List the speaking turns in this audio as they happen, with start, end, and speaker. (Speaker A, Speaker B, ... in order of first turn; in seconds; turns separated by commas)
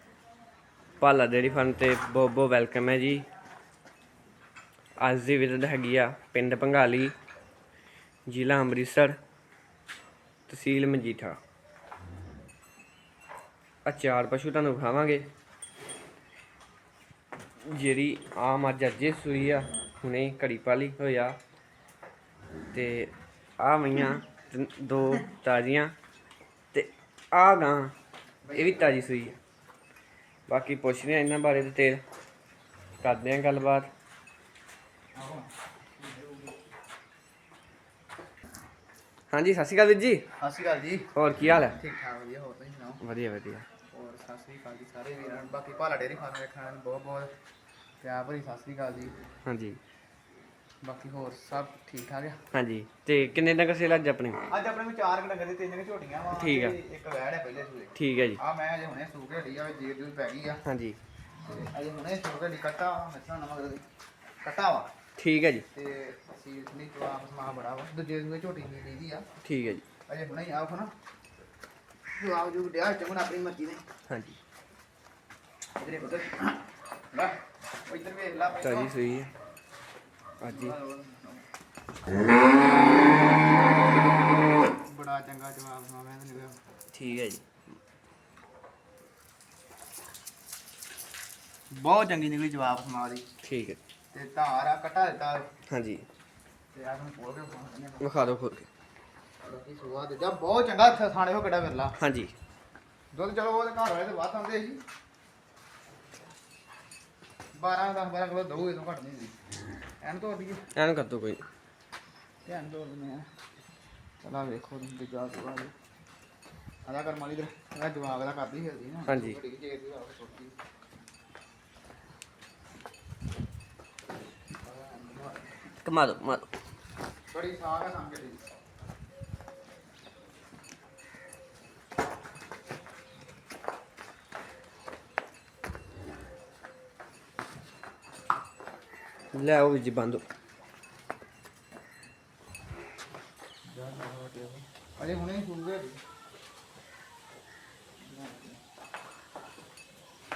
Speaker A: 1.0-3.3, Speaker A: 5.0-7.1, Speaker A: 8.3-9.2, Speaker A: 10.5-11.4, Speaker A: 13.9-15.2, Speaker A: 17.6-21.4, Speaker A: 22.7-25.9, Speaker A: 26.7-27.9, Speaker B: 28.4-28.9, Speaker A: 28.6-29.4, Speaker A: 30.5-32.0, Speaker A: 33.0-33.9, Speaker B: 35.2-35.5, Speaker B: 36.0-36.5, Speaker A: 39.3-40.3, Speaker B: 40.4-43.0, Speaker A: 41.1-41.8, Speaker A: 43.0-43.7, Speaker B: 43.9-47.3, Speaker B: 48.0-49.1, Speaker A: 49.5-49.8, Speaker B: 50.8-52.4, Speaker A: 52.5-54.4, Speaker B: 54.5-60.6, Speaker A: 56.4-56.8, Speaker A: 58.0-58.4, Speaker A: 60.6-61.0, Speaker B: 61.5-63.8, Speaker B: 64.4-64.9, Speaker A: 65.2-65.7, Speaker B: 65.7-69.2, Speaker A: 69.4-69.8, Speaker B: 70.1-70.9, Speaker B: 72.2-73.8, Speaker A: 74.1-74.4, Speaker B: 75.8-76.6, Speaker B: 77.9-79.0, Speaker A: 78.6-79.3, Speaker A: 80.4-80.8, Speaker B: 80.5-81.4, Speaker B: 84.9-86.6, Speaker A: 86.9-87.5, Speaker B: 91.7-93.2, Speaker A: 93.4-93.8, Speaker B: 94.1-95.5, Speaker A: 95.7-96.0, Speaker B: 96.7-98.1, Speaker A: 98.0-98.7, Speaker B: 99.4-102.0, Speaker A: 102.0-102.3, Speaker B: 103.1-104.8, Speaker B: 107.6-109.3, Speaker B: 110.0-110.6, Speaker A: 110.8-111.4, Speaker B: 112.5-113.3, Speaker B: 114.2-115.7, Speaker B: 116.9-120.5, Speaker A: 119.1-119.4, Speaker B: 124.6-125.5, Speaker A: 125.8-126.5, Speaker B: 127.3-128.5, Speaker A: 139.3-140.2, Speaker B: 143.7-146.0, Speaker B: 148.0-148.6